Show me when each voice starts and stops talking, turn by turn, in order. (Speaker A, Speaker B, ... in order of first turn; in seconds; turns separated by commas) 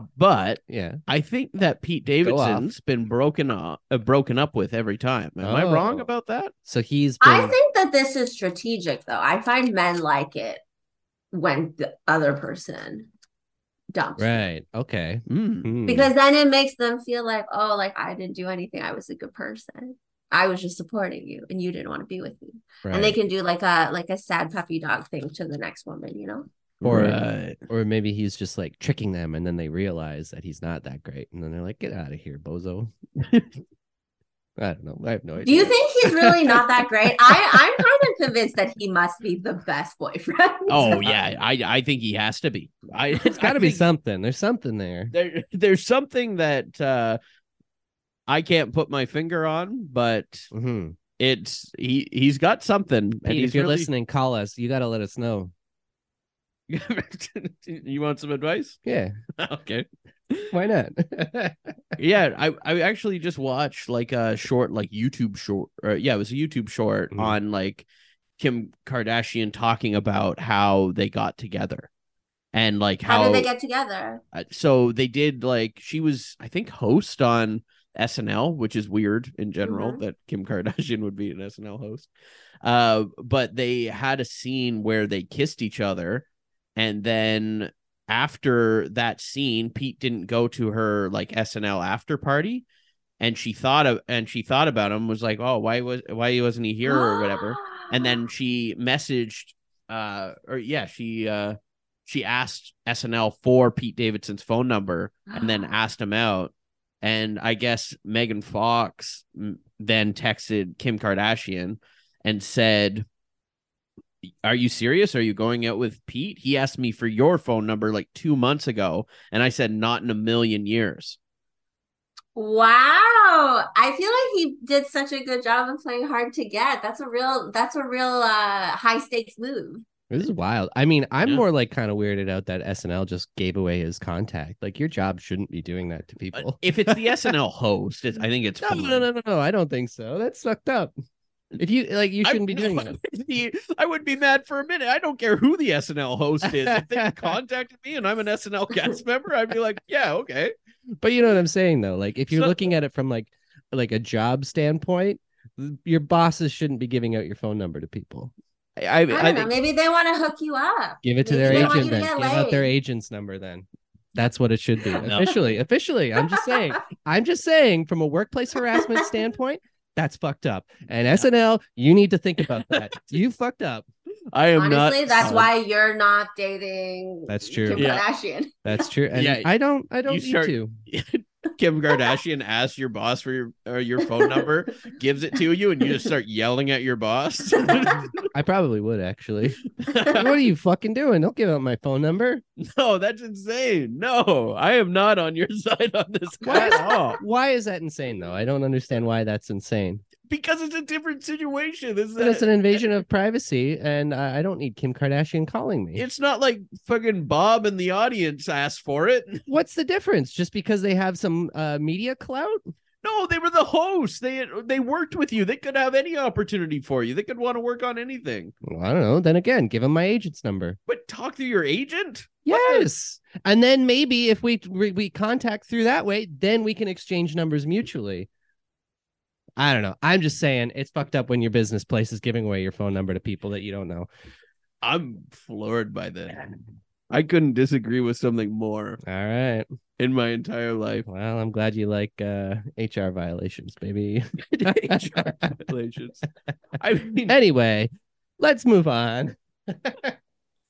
Speaker A: 0.2-6.5, Speaker B: 0.7-1.0, Speaker B: 2.2-2.7, Speaker B: 5.4-6.1, Speaker B: 6.6-7.5, Speaker C: 7.2-10.6, Speaker C: 11.3-13.1, Speaker C: 13.9-14.4, Speaker B: 14.2-16.1, Speaker A: 15.3-15.7, Speaker C: 15.9-26.5, Speaker B: 22.8-23.2, Speaker A: 26.8-27.6, Speaker B: 26.8-32.9, Speaker A: 33.2-33.5, Speaker B: 34.6-36.6, Speaker C: 35.5-41.1, Speaker A: 40.7-43.9, Speaker B: 43.3-45.1, Speaker A: 45.1-47.2, Speaker A: 48.3-50.5, Speaker B: 50.5-51.0, Speaker A: 51.2-53.9, Speaker B: 53.2-55.5, Speaker A: 56.7-58.8, Speaker B: 58.8-59.2, Speaker A: 59.4-60.5, Speaker B: 60.5-62.0, Speaker A: 62.0-67.9, Speaker A: 68.4-71.9, Speaker A: 72.5-73.5, Speaker C: 73.1-74.2, Speaker A: 74.3-82.1, Speaker C: 79.6-80.0, Speaker A: 82.6-86.2, Speaker A: 86.8-92.6, Speaker A: 93.2-113.0, Speaker C: 96.9-98.2, Speaker C: 105.3-105.6, Speaker A: 114.4-121.2, Speaker C: 122.4-129.8, Speaker B: 130.1-137.3, Speaker A: 136.3-139.1, Speaker B: 138.6-140.9, Speaker B: 141.6-142.9, Speaker A: 142.2-150.5, Speaker B: 146.4-147.4, Speaker B: 151.0-158.3, Speaker A: 152.3-152.6, Speaker A: 158.8-159.5, Speaker C: 159.1-162.7, Speaker B: 161.0-173.9, Speaker A: 161.4-161.9, Speaker A: 165.0-165.4, Speaker A: 174.3-175.5, Speaker C: 174.6-178.5, Speaker B: 177.3-177.9, Speaker A: 177.7-178.0, Speaker B: 178.6-180.7, Speaker A: 179.1-179.5, Speaker A: 180.1-188.3, Speaker B: 188.3-189.6, Speaker A: 189.8-190.3, Speaker B: 190.1-192.4, Speaker A: 192.6-197.2, Speaker B: 196.4-200.0, Speaker A: 200.3-202.8, Speaker B: 202.2-206.0, Speaker A: 205.9-209.4, Speaker B: 209.5-212.7, Speaker A: 213.0-218.5, Speaker B: 218.6-220.8, Speaker A: 220.9-222.9, Speaker B: 222.5-228.3, Speaker B: 229.6-234.1, Speaker A: 234.8-239.0, Speaker B: 239.1-239.7, Speaker A: 240.0-241.1, Speaker B: 241.1-245.5, Speaker A: 244.5-246.3, Speaker A: 246.8-247.3, Speaker B: 247.3-250.1